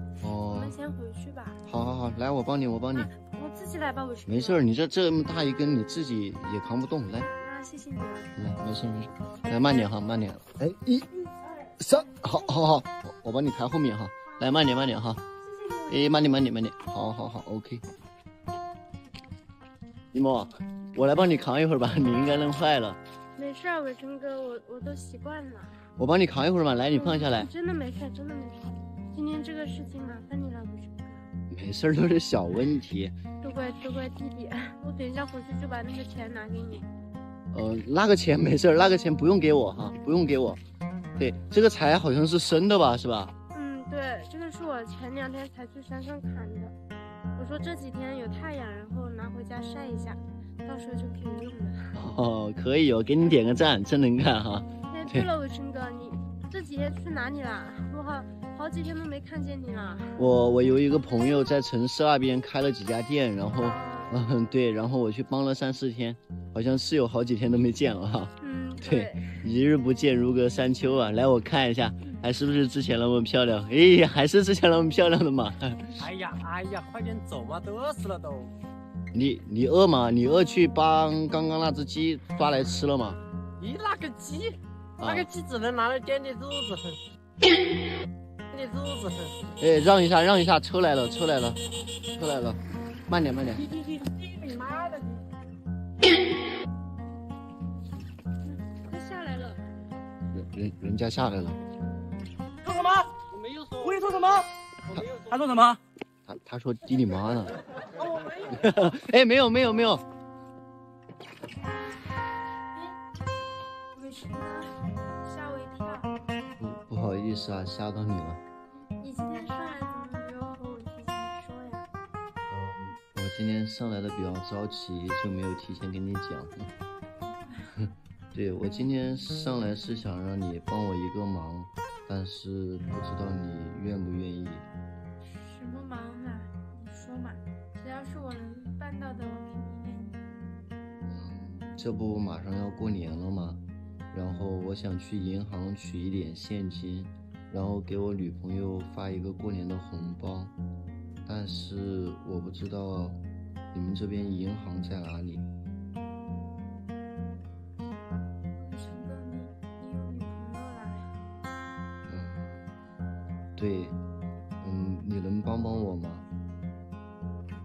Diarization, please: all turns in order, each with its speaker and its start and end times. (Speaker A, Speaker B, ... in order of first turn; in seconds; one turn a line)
Speaker A: 0.2-0.8
Speaker B: 0.4-1.6
Speaker A: 1.6-3.1
Speaker B: 2.9-4.6
Speaker A: 4.3-7.3
Speaker B: 7.2-8.3
Speaker A: 8.3-15.2
Speaker B: 15.4-16.1
Speaker A: 15.9-17.8
Speaker A: 20.1-23.0
Speaker B: 23.4-25.8
Speaker A: 26.0-27.5
Speaker B: 26.9-31.2
Speaker A: 31.5-33.1
Speaker B: 33.4-36.9
Speaker A: 37.5-40.6
Speaker A: 41.2-43.3
Speaker B: 43.5-46.7
Speaker B: 47.3-52.0
Speaker A: 51.9-55.3
Speaker B: 54.9-60.2
Speaker A: 60.2-76.0
Speaker B: 63.5-64.2
Speaker B: 68.4-69.5
Speaker C: 76.0-78.5
Speaker A: 79.1-83.2
Speaker C: 83.6-87.0
Speaker A: 85.0-85.3
Speaker C: 88.5-89.5
Speaker A: 89.6-93.6
Speaker C: 93.5-95.3
Speaker B: 98.4-99.6
Speaker A: 100.3-101.6
Speaker D: 102.6-103.2
Speaker C: 103.2-104.2
Speaker D: 103.8-105.8
Speaker C: 104.9-105.4
Speaker A: 106.2-107.6
Speaker C: 108.0-108.7
Speaker A: 108.5-110.0
Speaker B: 113.9-116.1
Speaker A: 116.6-118.4
Speaker B: 119.0-121.9
Speaker A: 122.5-126.7
Speaker B: 127.3-127.7
Speaker A: 128.3-134.7
Speaker B: 135.2-140.2
Speaker A: 141.1-143.6
Speaker A: 144.1-150.5
Speaker A: 151.2-153.2
Speaker A: 153.7-155.4
Speaker B: 158.6-161.2
Speaker A: 162.1-162.6
Speaker A: 163.6-164.0
Speaker A: 164.6-166.2